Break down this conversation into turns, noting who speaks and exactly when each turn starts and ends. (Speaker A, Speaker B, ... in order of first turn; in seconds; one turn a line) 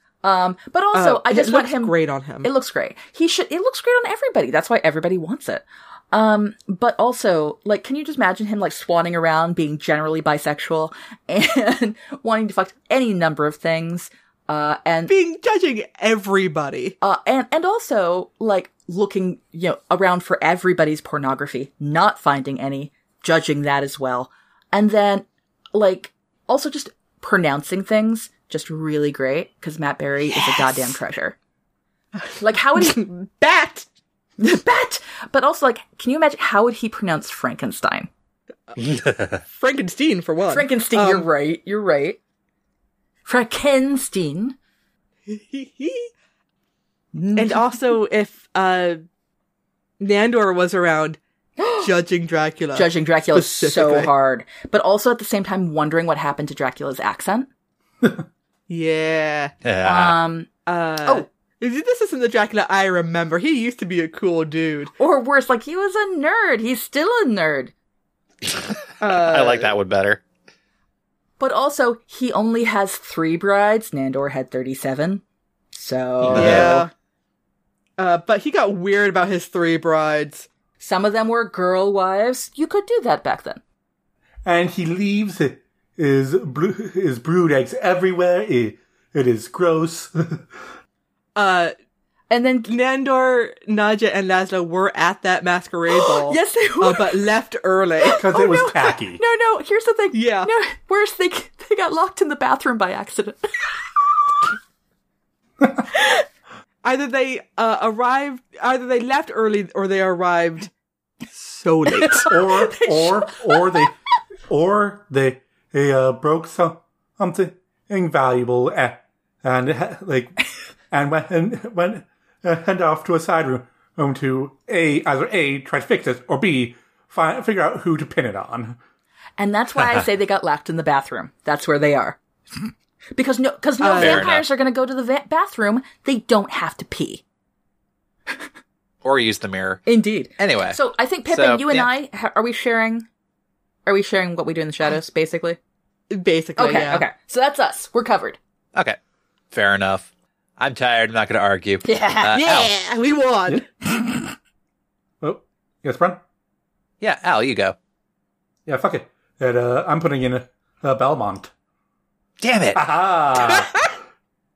Speaker A: 0.2-15.1
Speaker B: 0.9-2.5
Speaker B: 15.1-16.9
Speaker A: 17.0-31.4
Speaker B: 30.3-30.9
Speaker A: 32.4-33.1
Speaker B: 32.8-33.9
Speaker A: 34.4-38.1
Speaker C: 38.8-39.4
Speaker B: 39.4-41.2
Speaker A: 40.5-42.2
Speaker A: 43.2-44.5
Speaker B: 45.3-46.1
Speaker A: 47.1-47.8
Speaker B: 47.4-49.0
Speaker B: 50.0-51.2
Speaker A: 51.6-51.9
Speaker B: 51.8-54.1
Speaker A: 52.7-57.5
Speaker B: 58.7-59.5
Speaker C: 59.6-60.2
Speaker A: 59.8-60.5
Speaker B: 60.6-64.9
Speaker A: 65.0-67.7
Speaker C: 68.4-70.2
Speaker B: 69.0-69.7
Speaker A: 71.4-75.2
Speaker A: 75.7-76.8
Speaker C: 76.2-76.9
Speaker B: 76.3-76.9
Speaker B: 78.0-80.5
Speaker A: 80.8-83.6
Speaker D: 84.4-90.7
Speaker B: 91.3-91.7
Speaker A: 92.3-92.7
Speaker B: 92.7-98.3
Speaker A: 95.9-97.2
Speaker A: 98.0-104.2
Speaker D: 98.2-99.2
Speaker B: 100.1-100.5
Speaker A: 105.9-106.2
Speaker B: 106.8-110.7
Speaker B: 111.3-112.4
Speaker A: 111.9-113.8
Speaker D: 112.3-113.9
Speaker D: 114.5-120.4
Speaker D: 120.9-128.8
Speaker A: 129.4-137.2
Speaker B: 133.8-134.2
Speaker C: 133.9-134.4
Speaker C: 139.0-139.8
Speaker A: 139.8-143.1
Speaker C: 140.4-140.8
Speaker C: 141.3-141.9
Speaker A: 143.8-145.6
Speaker B: 146.1-147.0
Speaker A: 146.6-148.4
Speaker C: 149.5-152.8
Speaker A: 151.8-152.4
Speaker B: 152.3-153.7
Speaker D: 155.2-156.2
Speaker C: 157.0-157.7
Speaker D: 158.7-161.5
Speaker C: 162.4-162.8
Speaker D: 162.7-163.7
Speaker B: 163.4-163.8